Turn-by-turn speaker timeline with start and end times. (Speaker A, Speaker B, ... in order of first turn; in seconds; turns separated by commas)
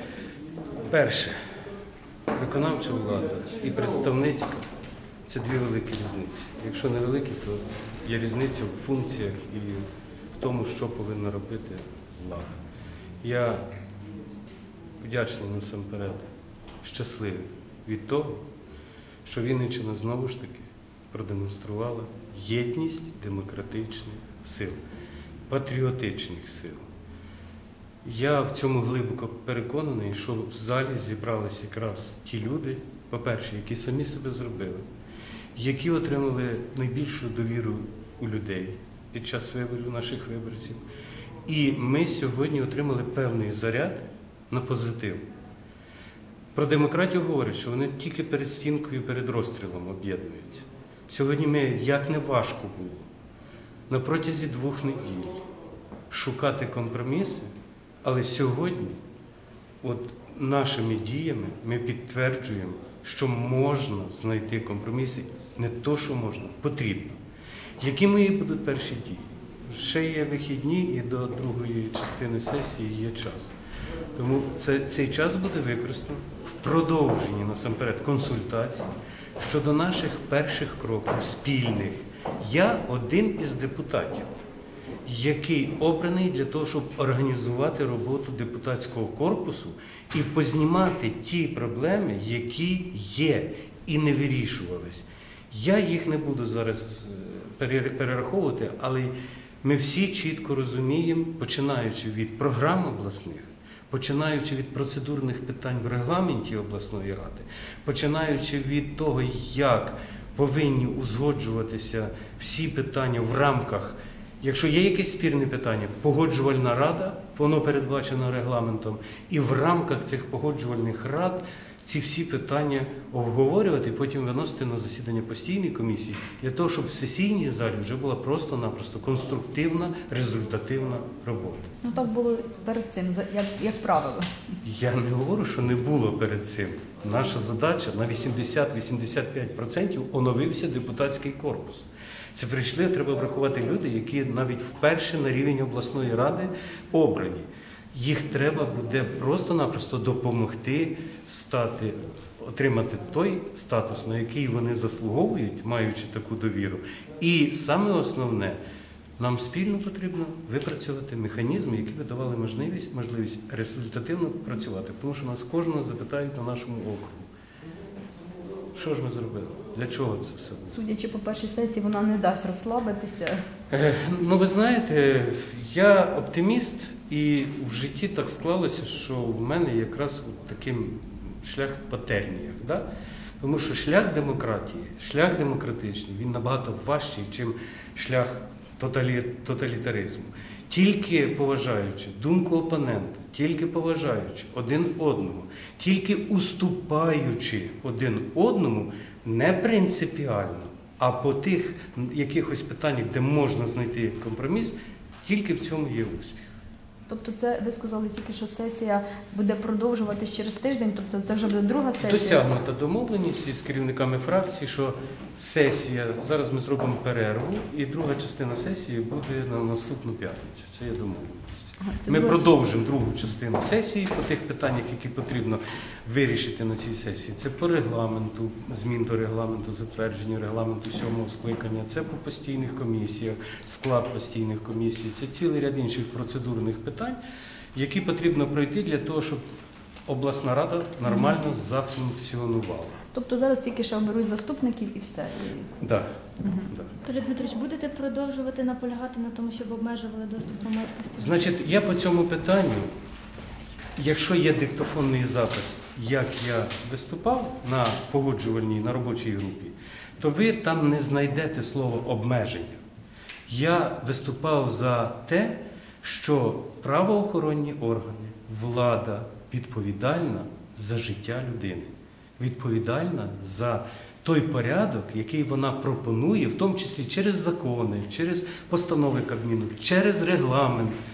Speaker A: 0.9-1.4, Speaker A: 2.4-4.7, Speaker A: 5.3-12.6, Speaker A: 13.2-13.7, Speaker A: 15.0-16.3, Speaker A: 16.8-18.4, Speaker A: 19.2-24.8, Speaker A: 25.5-26.9, Speaker A: 28.0-34.8, Speaker A: 35.6-40.8, Speaker A: 41.5-45.2, Speaker A: 46.5-53.1, Speaker A: 53.9-55.4, Speaker A: 56.1-57.5, Speaker A: 58.0-59.0, Speaker A: 59.8-67.2, Speaker A: 67.8-73.5, Speaker A: 74.2-84.3, Speaker A: 85.0-131.7, Speaker B: 131.8-134.3, Speaker A: 134.6-158.6, Speaker A: 159.2-167.3, Speaker A: 168.7-170.8, Speaker B: 170.7-173.4, Speaker A: 173.7-182.8, Speaker A: 183.4-206.5, Speaker B: 207.1-212.4, Speaker A: 212.0-237.2, Speaker B: 221.8-222.5, Speaker A: 237.7-239.4, Speaker A: 240.1-243.0, Speaker B: 241.1-241.3, Speaker B: 243.1-245.7, Speaker A: 245.8-246.1, Speaker B: 246.4-246.7, Speaker A: 246.7-246.9, Speaker C: 247.0-251.6, Speaker A: 251.2-252.9, Speaker A: 254.0-262.8, Speaker A: 263.5-281.0